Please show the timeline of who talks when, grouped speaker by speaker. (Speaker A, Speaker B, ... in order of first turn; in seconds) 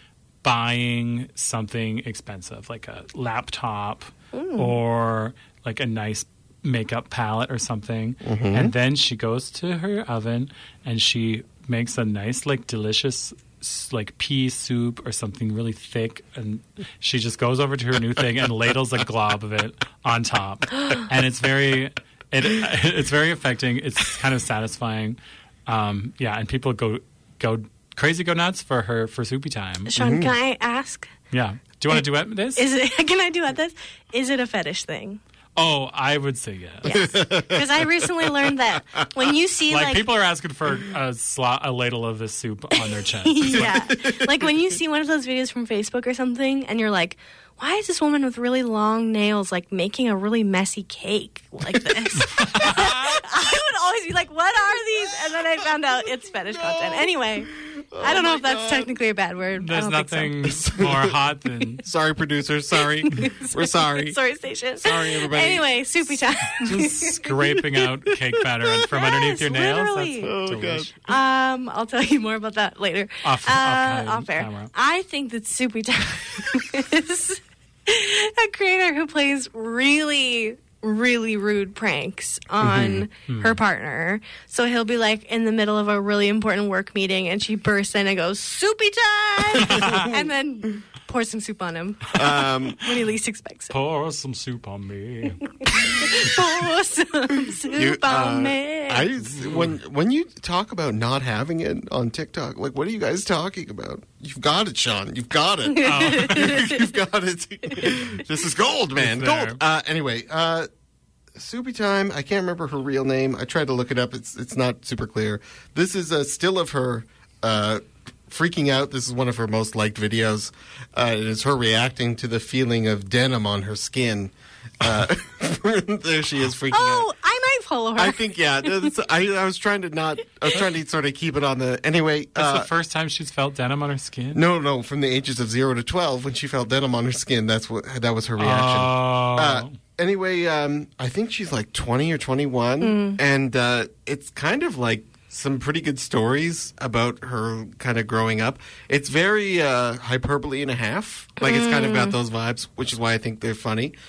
Speaker A: 0.4-29.9, 31.3-32.7, 35.6-37.0, 39.7-43.8, 52.3-53.2, 59.6-61.8, 66.6-71.0, 73.2-74.7, 83.3-83.6, 89.6-90.1, 93.7-95.5, 99.3-99.7, 105.8-106.7, 109.0-109.6, 132.4-134.4, 138.4-139.7
Speaker B: 4.3-4.8, 29.9-31.1, 32.6-35.2, 36.8-40.0, 42.7-60.4, 62.8-67.2, 69.0-70.3, 71.0-93.7, 95.6-99.1, 105.7-106.9, 126.7-128.9, 142.8-143.2, 151.4-152.2
Speaker C: 8.2-8.7, 30.0-30.3, 36.9-39.3, 43.5-44.5, 55.3-55.7, 56.5-58.9, 60.4-61.2, 61.8-64.2, 64.8-69.0, 70.2-70.9, 82.6-83.1, 89.6-90.2, 92.1-92.8, 97.7-110.7, 111.3-127.1, 128.0-132.7, 134.3-153.9